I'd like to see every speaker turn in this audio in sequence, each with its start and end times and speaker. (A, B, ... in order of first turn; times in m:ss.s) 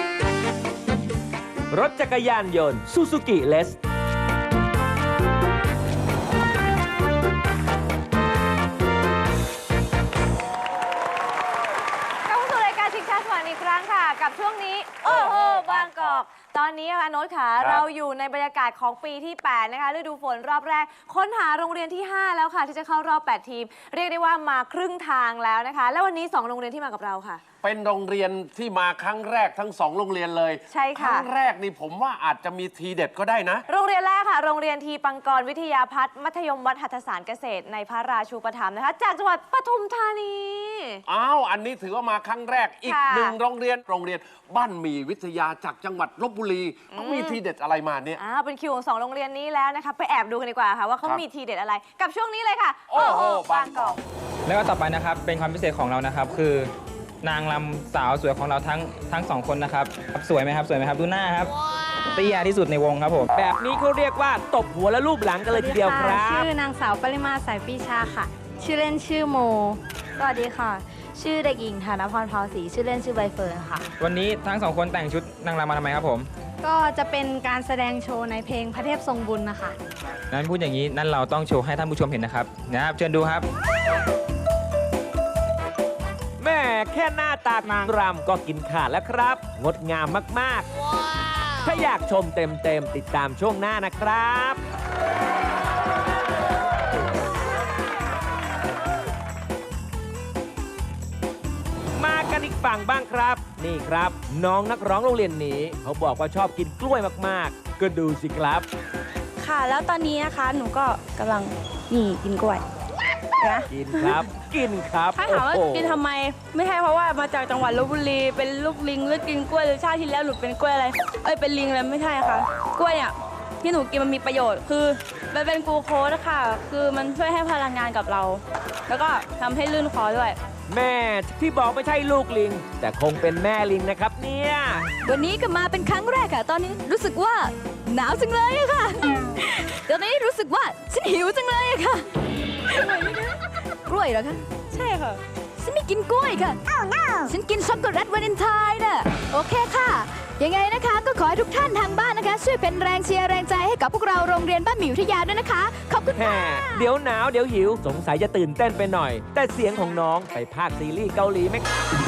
0:01.7-0:03.8 A
0:12.3-0:27.4 B
0:15.2-0:15.8 C
0:27.6-0:33.6 C
0:30.7-0:31.3 B
0:33.7-0:41.0 B
0:41.1-0:48.2 C
0:42.9-0:43.4 B
0:46.9-0:47.4 B
0:48.2-0:54.0 B
0:52.9-0:54.0 C
0:54.4-0:56.7 D
0:57.2-1:01.5 D
1:02.1-1:03.3 D
1:03.3-1:06.5 A
1:05.5-1:13.8 E
1:14.0-1:16.3 D
1:16.6-1:19.8 E
1:20.3-1:23.5 D
1:26.4-1:30.6 A
1:31.6-1:34.6 A
1:42.0-1:48.6 A
1:49.4-1:52.6 F
1:53.4-1:54.3 F
1:53.7-1:56.0 A
1:55.1-2:10.4 F
2:10.7-2:14.9 A
2:15.0-2:22.1 G
2:22.7-2:23.1 G
2:22.9-2:23.3 F
2:23.8-2:24.4 G
2:24.7-2:25.2 F
2:25.6-2:26.6 G
2:27.2-2:36.9 G
2:36.1-2:41.6 A